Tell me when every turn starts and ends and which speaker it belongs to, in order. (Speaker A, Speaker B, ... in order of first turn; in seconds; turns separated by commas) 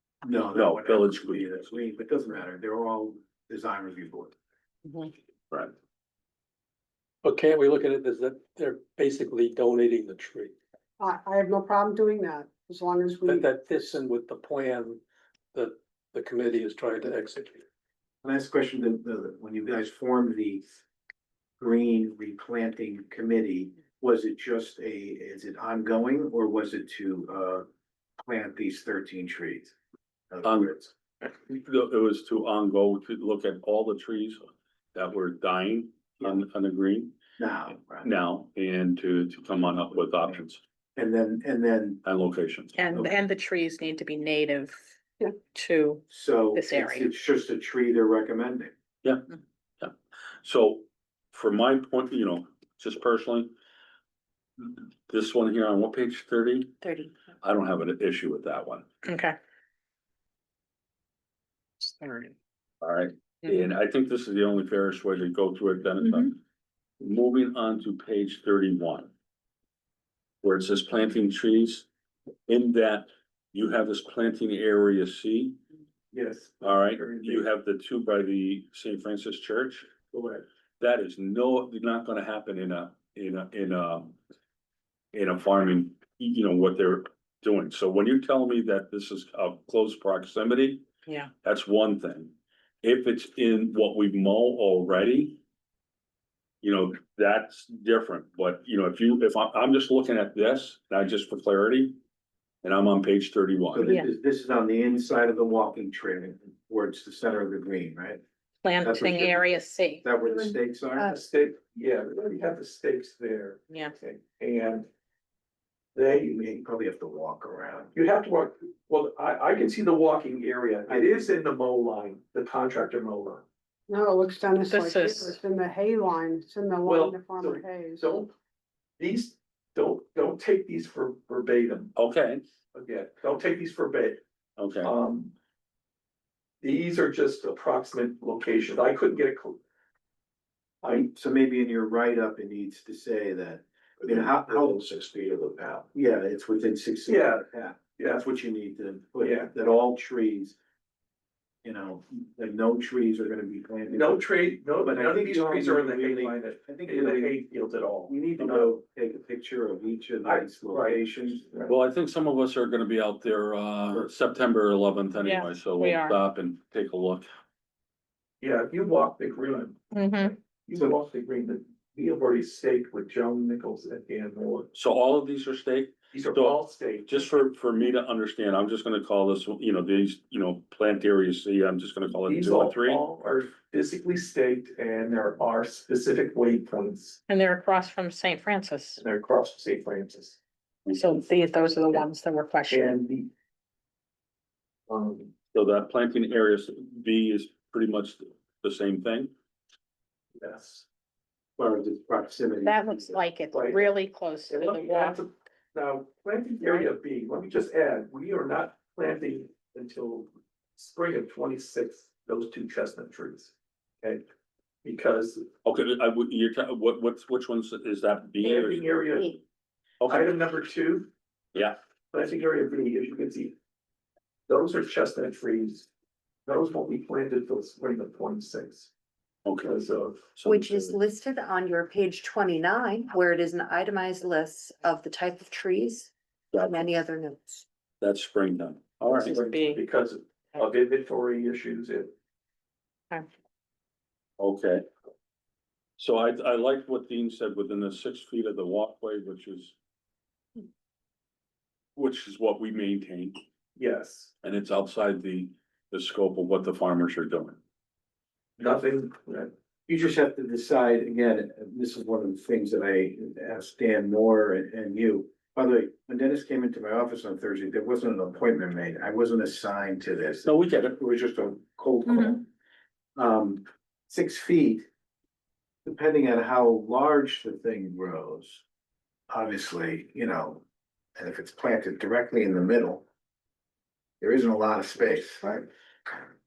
Speaker A: 0.2-4.3, Speaker B: 0.5-1.7, Speaker C: 7.2-10.5, Speaker D: 11.0-13.5, Speaker C: 13.2-15.0, Speaker C: 15.5-17.6, Speaker A: 18.2-20.6, Speaker A: 21.6-27.6, Speaker A: 28.2-29.7, Speaker A: 30.3-30.9, Speaker B: 30.4-30.7, Speaker B: 31.2-37.1, Speaker A: 37.4-38.1, Speaker B: 38.0-40.6, Speaker A: 41.0-42.0, Speaker B: 42.0-42.7, Speaker E: 42.8-44.8, Speaker E: 45.4-47.1, Speaker A: 46.1-48.7, Speaker B: 49.8-53.5, Speaker B: 55.1-56.7, Speaker F: 56.8-57.1, Speaker B: 57.4-58.9, Speaker E: 59.0-59.4, Speaker B: 62.8-66.4, Speaker B: 67.0-69.1, Speaker B: 70.4-71.9, Speaker B: 72.5-75.6, Speaker G: 76.1-77.5, Speaker B: 76.6-79.9, Speaker G: 80.1-80.4, Speaker B: 80.8-84.2, Speaker B: 85.1-90.8, Speaker E: 91.0-91.3, Speaker B: 91.4-95.4, Speaker B: 96.6-102.0, Speaker B: 102.6-103.9, Speaker A: 103.7-108.2, Speaker E: 108.6-110.1, Speaker A: 108.8-111.1, Speaker F: 110.2-111.2, Speaker G: 111.1-114.9, Speaker G: 115.9-116.4, Speaker A: 116.3-117.9, Speaker G: 117.9-123.4, Speaker A: 120.9-121.3, Speaker D: 123.9-128.2, Speaker E: 124.7-125.4, Speaker G: 126.8-128.3, Speaker G: 129.0-131.9, Speaker B: 131.9-132.4, Speaker G: 132.7-134.2, Speaker B: 134.6-134.9, Speaker G: 134.8-135.3, Speaker G: 136.6-139.6, Speaker A: 140.8-145.1, Speaker G: 144.0-145.9, Speaker A: 145.9-150.6, Speaker G: 147.1-147.4, Speaker G: 148.0-148.2, Speaker G: 149.2-149.5, Speaker A: 151.6-157.4, Speaker G: 153.9-158.3, Speaker A: 158.1-161.4, Speaker G: 160.2-161.7, Speaker B: 161.7-167.3, Speaker E: 165.1-166.2, Speaker G: 168.4-174.7, Speaker E: 169.9-170.3, Speaker B: 174.7-183.0, Speaker G: 176.1-177.3, Speaker G: 182.2-187.2, Speaker E: 187.3-189.0, Speaker G: 189.0-190.4, Speaker E: 190.9-193.0, Speaker G: 192.7-193.3, Speaker G: 194.9-195.3, Speaker B: 195.5-199.3, Speaker G: 200.4-200.8, Speaker A: 201.6-203.2, Speaker E: 202.6-205.2, Speaker G: 203.5-203.9, Speaker G: 204.5-214.2, Speaker G: 214.8-215.5, Speaker B: 215.6-218.8, Speaker G: 218.4-219.4, Speaker F: 218.6-219.4, Speaker B: 220.0-220.3, Speaker G: 220.1-221.1, Speaker G: 222.1-223.5, Speaker G: 224.5-225.9, Speaker G: 226.4-228.9, Speaker B: 229.4-229.7, Speaker G: 229.6-230.3, Speaker B: 230.3-231.0, Speaker F: 230.4-237.6, Speaker B: 236.5-236.8, Speaker B: 238.0-239.4, Speaker G: 239.1-242.1, Speaker E: 239.2-239.8, Speaker B: 244.4-244.8, Speaker B: 246.0-249.8, Speaker B: 251.9-253.4, Speaker G: 253.8-254.3, Speaker B: 254.4-257.6, Speaker G: 258.6-259.5, Speaker A: 259.9-272.5, Speaker B: 270.4-271.0, Speaker E: 272.1-272.4, Speaker A: 273.1-274.9, Speaker A: 275.8-278.6, Speaker A: 279.3-280.6, Speaker A: 281.1-283.0, Speaker A: 284.2-286.2